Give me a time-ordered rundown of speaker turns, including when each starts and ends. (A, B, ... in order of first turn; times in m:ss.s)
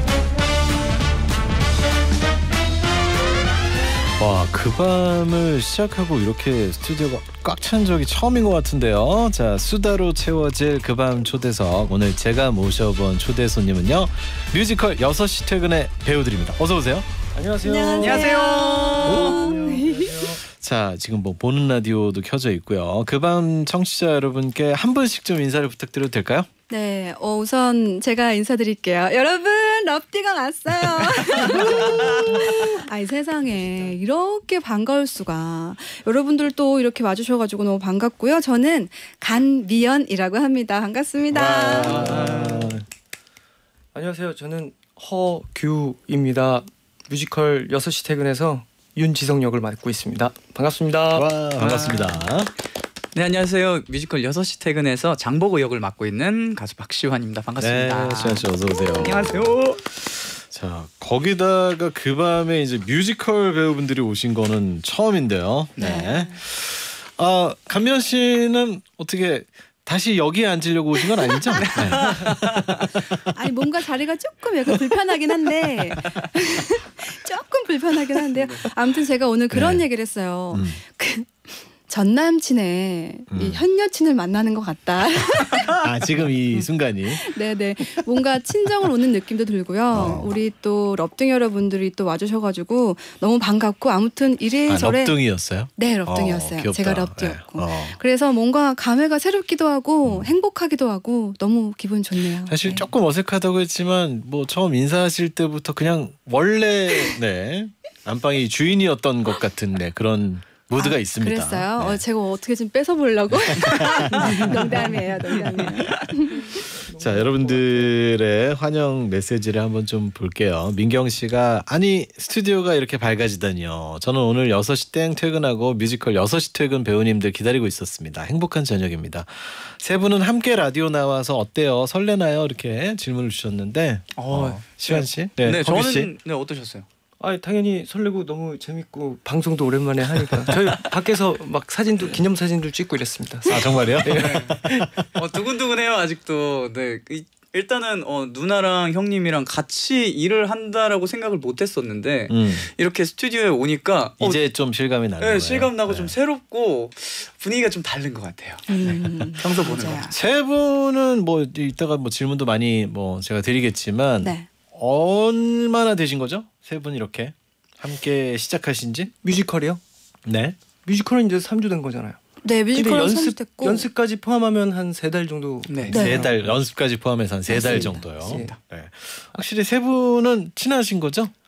0:04.2-0:17.1 A
0:17.3-0:20.4 B
0:17.6-0:20.2 C
0:18.0-0:19.5 D
0:19.1-0:26.5 A
0:26.7-0:42.2 C
0:31.5-0:32.0 A
0:41.3-0:42.8 A
0:41.8-0:42.7 B
0:43.9-0:51.3 B
0:51.1-0:52.5 A
0:51.6-0:52.2 D
0:53.1-0:59.8 D
0:57.6-1:13.2 A
1:05.8-1:06.0 D
1:05.8-1:06.4 C
1:11.7-1:12.8 D
1:13.3-1:25.7 C
1:18.3-1:18.7 D
1:19.5-1:19.8 A
1:20.5-1:20.8 A
1:23.3-1:23.6 A
1:25.7-1:27.2 A
1:27.1-1:42.8 C
1:29.9-1:30.3 A
1:34.7-1:38.0 A
1:40.0-1:40.3 A
1:42.4-1:52.0 A
1:50.8-1:56.6 C
1:53.4-1:54.4 A
1:54.1-1:55.0 B
1:56.5-1:58.0 B
1:56.9-2:16.1 A
2:14.2-2:16.9 D
2:17.2-2:25.0 B
2:23.4-2:24.5 A
2:24.0-2:24.6 D
2:25.1-2:34.4 D
2:32.3-2:32.7 A
2:34.2-2:36.1 A
2:35.2-2:40.1 D
2:38.7-2:40.1 C
2:39.8-2:49.1 A
2:44.2-2:44.5 C
2:49.2-2:49.8 B
2:50.2-2:50.6 A
2:50.8-2:52.2 B
2:52.4-2:53.9 C
2:52.7-2:56.6 B
2:55.7-2:56.2 D
2:55.9-3:01.3 A
2:55.9-2:56.3 C
2:57.5-2:58.1 C
2:57.5-2:58.6 B